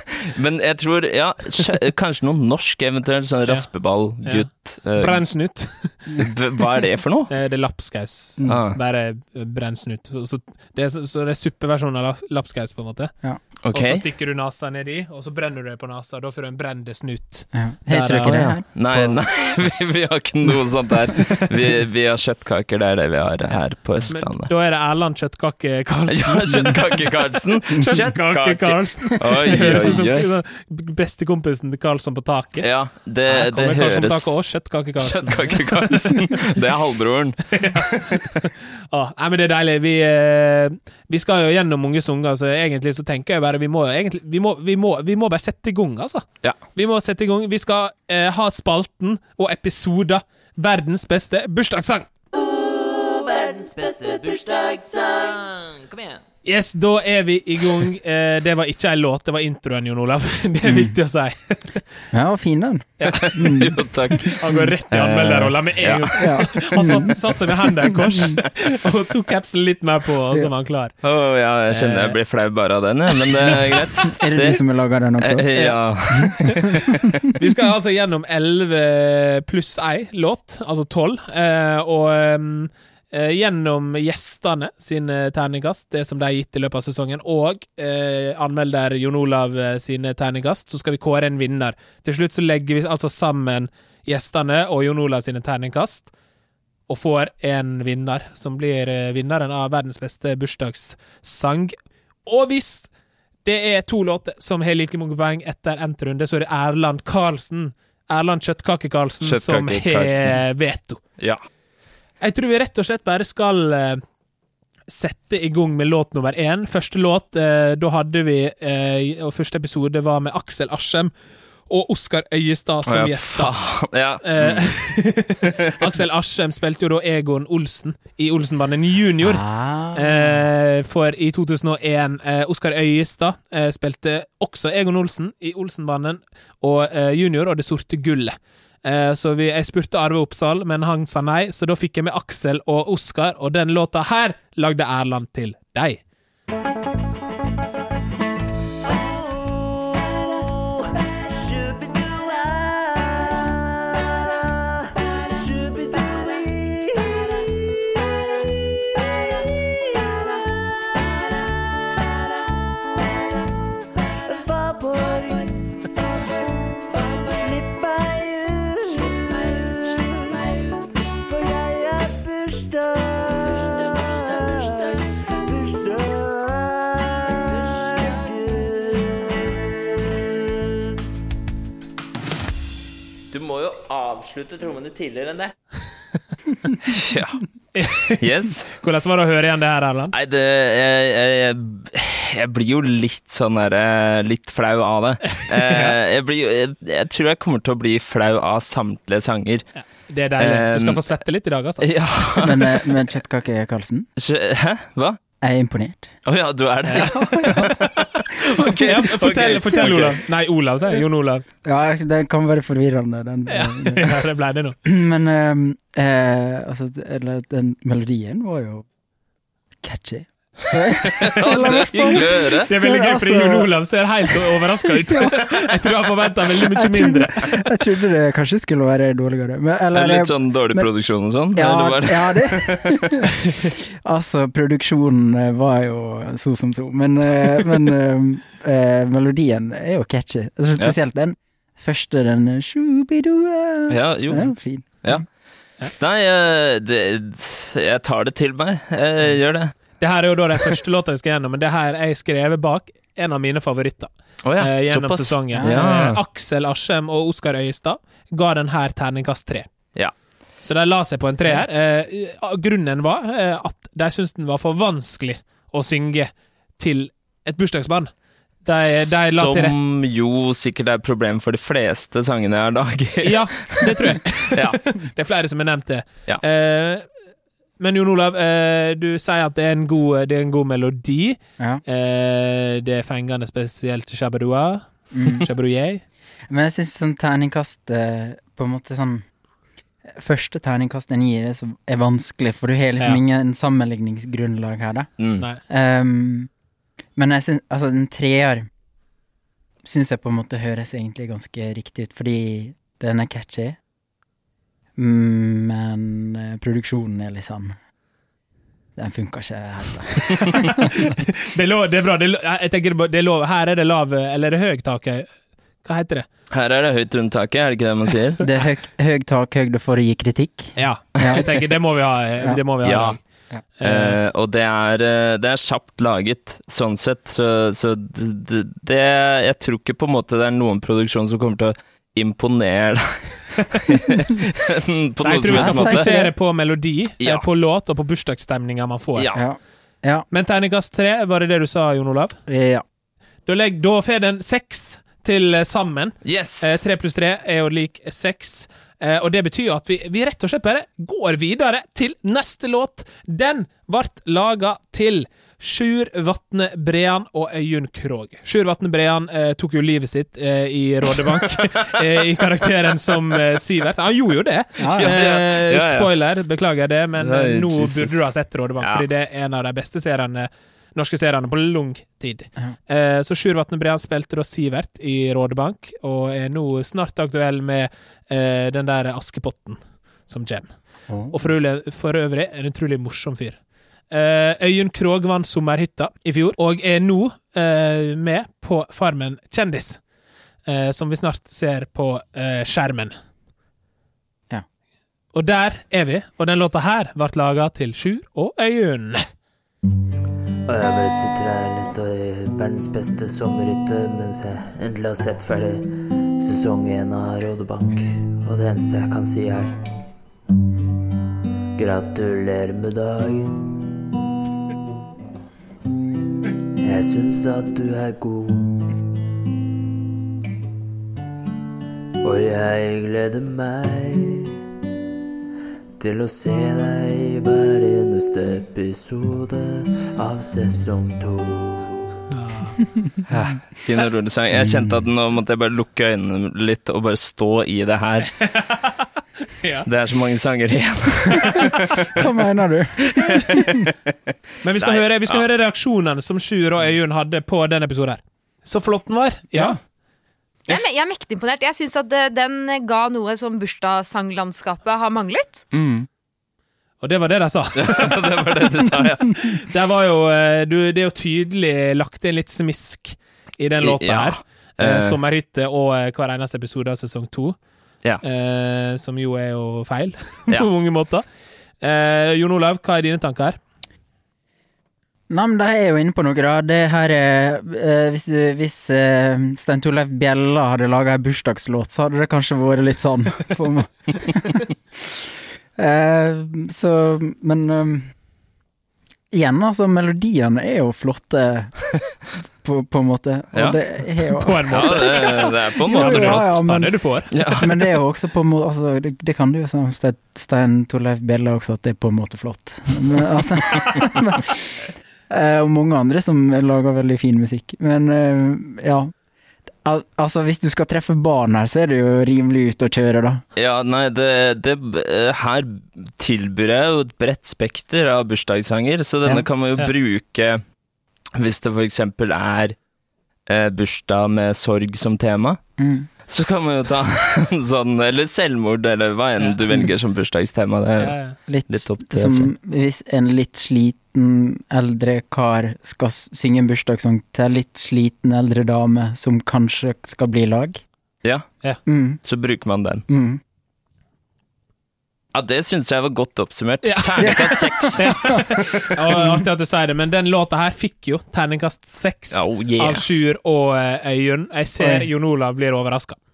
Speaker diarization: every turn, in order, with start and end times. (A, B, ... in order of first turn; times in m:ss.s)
0:00.3-0:05.2 A
0:04.2-0:06.0 B
0:06.2-0:07.3 A
0:07.3-0:13.1 B
0:08.5-0:08.8 A
0:13.6-0:14.0 A
0:13.7-0:18.4 B
0:17.5-0:19.2 C
0:18.3-0:24.5 A
0:24.1-0:27.0 B
0:26.1-0:30.3 A
0:27.8-0:32.7 B
0:32.6-0:34.4 A
0:33.3-0:36.2 B
0:35.0-0:38.3 A
0:37.5-0:52.1 B
0:52.4-0:56.2 D
0:56.4-1:01.8 B
1:00.7-1:00.9 C
1:02.1-1:04.6 C
1:03.0-1:03.4 B
1:03.2-1:04.4 A
1:04.3-1:11.0 B
1:04.9-1:06.4 A
1:06.1-1:07.2 C
1:07.9-1:08.4 C
1:11.0-1:14.6 A
1:11.7-1:12.2 B
1:14.2-1:15.5 C
1:15.2-1:17.2 A
1:16.4-1:16.6 B
1:17.4-1:36.1 B
1:36.9-1:41.8 B
1:42.3-1:42.9 B
1:43.4-1:51.0 B
1:49.2-1:50.4 A
1:51.2-1:51.4 A
1:52.2-1:54.0 B
1:54.9-2:01.1 B
2:01.7-2:03.5 B
2:02.9-2:04.8 A
2:04.2-2:26.0 B
2:05.4-2:05.7 A
2:09.2-2:10.4 C
2:28.8-2:38.4 D
2:38.9-2:43.5 D
2:44.1-2:45.9 D
2:46.9-3:00.9 D
3:03.3-3:05.6 D
3:06.8-3:07.4 A
3:07.8-3:08.2 B
3:08.0-3:08.7 A
3:08.8-3:10.1 B
3:10.1-3:19.7 A
3:15.4-3:16.0 B
3:19.8-3:21.9 B
3:20.4-3:21.0 A
3:21.8-3:22.8 A
3:22.4-3:24.1 C
3:24.2-3:25.2 A
3:25.4-3:26.1 C
3:26.3-3:30.2 A
3:26.9-3:27.2 B
3:27.1-3:27.8 C
3:28.7-3:31.4 B
3:31.6-3:34.2 C
3:33.5-3:34.8 B
3:34.8-3:38.9 C
3:39.8-3:43.7 C
3:41.2-3:42.7 A
3:42.7-3:47.6 B
3:44.6-3:45.5 C
3:46.6-3:50.9 C
3:49.9-3:53.1 A
3:51.5-3:53.3 C
3:54.0-4:05.2 C
4:03.9-4:05.2 A
4:06.0-4:09.7 A
4:10.0-4:19.7 B
4:14.4-4:16.2 A
4:15.6-4:15.9 C
4:20.6-4:28.1 B
4:28.6-4:29.8 B
4:28.8-4:34.8 A
4:33.2-4:37.1 B
4:37.8-4:46.0 B
4:45.1-4:45.5 C
4:46.5-4:49.2 C
4:50.1-4:55.1 C
4:55.7-4:56.5 C
4:57.2-4:58.7 C
4:59.8-5:03.8 C
5:05.0-5:07.8 C
5:09.0-5:11.1 C
5:10.5-5:15.3 B
5:15.8-5:16.3 B
5:16.5-5:18.4 A
5:18.4-5:21.5 C
5:20.8-5:23.2 B
5:22.8-5:23.2 A
5:23.8-5:24.2 B
5:23.8-5:36.1 A
5:35.2-5:39.3 B
5:35.4-5:36.3 C
5:39.2-5:39.4 A
5:39.3-5:40.2 C
5:40.3-5:42.4 B
5:42.5-5:42.8 C
5:43.5-6:23.6 B
5:46.2-5:46.8 A
6:04.8-6:05.2 C
6:05.0-6:06.1 A
6:07.2-6:08.2 A
6:08.8-6:09.1 A
6:21.1-6:21.4 C
6:24.1-6:30.0 B
6:30.7-6:33.1 B
6:35.3-6:39.2 B
6:40.7-6:49.8 D
6:51.8-6:53.6 D
6:56.8-6:58.8 D
7:02.2-7:04.6 D
7:06.0-7:12.0 D
7:12.3-7:12.8 B
7:13.3-7:18.4 A
7:14.5-7:15.0 C
7:18.4-7:18.9 B
7:19.8-7:22.3 A
7:22.1-7:23.8 C
7:24.6-7:29.8 B
7:24.8-7:25.4 A
7:30.7-7:35.6 E
7:37.0-7:38.5 B
7:37.8-7:39.6 A
7:39.5-7:47.6 B
7:43.8-7:45.2 A
7:48.2-7:51.2 B
7:51.8-7:53.6 B
7:55.3-8:04.7 C
8:05.8-8:08.1 C
8:09.3-8:11.8 C
8:12.6-8:17.0 C
8:13.5-8:13.8 A
8:14.4-8:17.3 B
8:14.7-8:16.6 A
8:17.3-8:17.8 A
8:17.5-8:29.1 C
8:29.8-8:33.4 C
8:33.6-8:40.6 A
8:41.4-8:42.8 A
8:43.5-8:45.6 A
8:45.8-8:46.1 C
8:46.2-8:51.2 A
8:51.0-8:51.4 B
8:51.5-9:00.8 C
8:51.7-8:52.5 A
9:01.2-9:01.5 A
9:01.9-9:02.2 C
9:02.2-9:03.1 A
9:03.1-9:03.4 C
9:05.3-9:08.3 A
9:06.8-9:16.2 B
9:07.2-9:08.4 C
9:12.3-9:13.0 A
9:14.8-9:15.0 C